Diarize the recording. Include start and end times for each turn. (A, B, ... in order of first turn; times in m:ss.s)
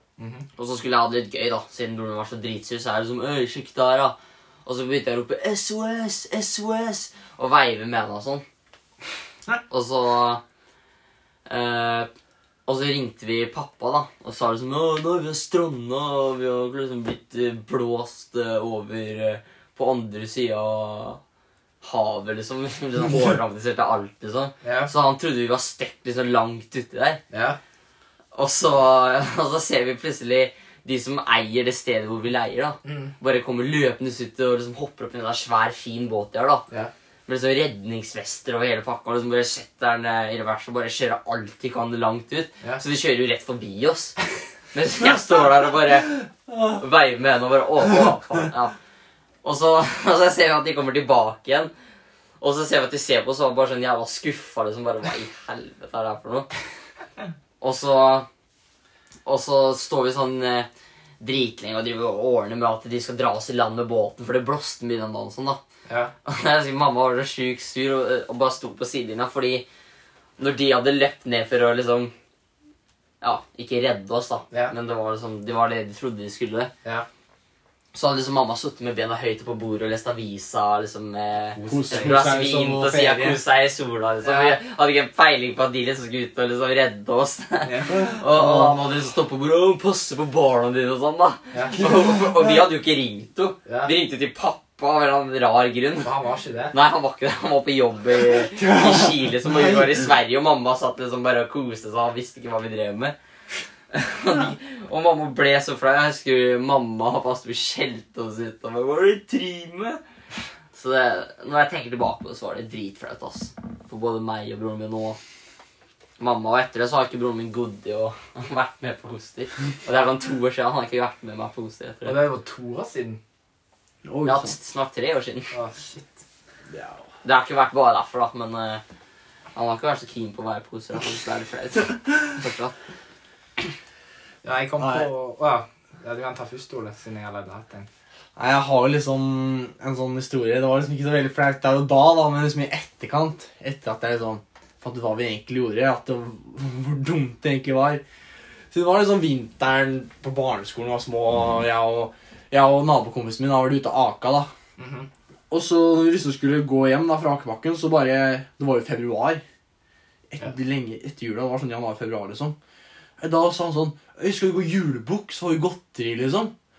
0:00.2-0:00.4 A
0:00.6-0:08.4 B
0:09.7-0:10.4 B
0:11.5-0:12.1 B
0:12.6-0:21.2 B
0:21.8-0:27.2 B
0:24.6-0:24.9 A
0:27.3-0:27.6 A
0:28.3-0:36.6 B
0:32.8-0:33.1 A
0:37.3-0:44.2 B
0:44.7-0:48.7 B
0:49.4-0:51.7 B
0:52.4-0:56.5 B
0:57.6-0:58.3 B
0:59.2-1:00.7 B
1:01.2-1:05.6 B
1:05.8-1:06.1 A
1:06.2-1:09.6 B
1:10.4-1:12.1 B
1:13.2-1:16.7 B
1:17.9-1:36.1 B
1:21.5-1:22.2 A
1:21.6-1:23.4 C
1:24.2-1:24.6 A
1:27.6-1:28.0 A
1:27.9-1:28.8 C
1:31.5-1:31.8 A
1:31.8-1:32.6 C
1:33.6-1:33.9 A
1:36.0-1:36.7 A
1:36.7-1:43.2 B
1:38.4-1:40.1 C
1:43.9-1:50.0 B
1:50.7-1:55.2 B
1:56.2-2:02.2 B
2:02.0-2:03.2 A
2:04.0-2:04.5 C
2:04.2-2:05.5 B
2:05.5-2:06.2 A
2:06.7-2:07.0 C
2:07.2-2:08.8 B
2:09.5-2:12.8 B
2:14.4-2:17.9 A
2:14.8-2:15.1 C
2:18.4-2:28.0 C
2:28.7-2:34.5 C
2:34.8-2:35.1 A
2:35.5-2:39.4 C
2:40.3-2:42.6 C
2:43.2-2:46.5 C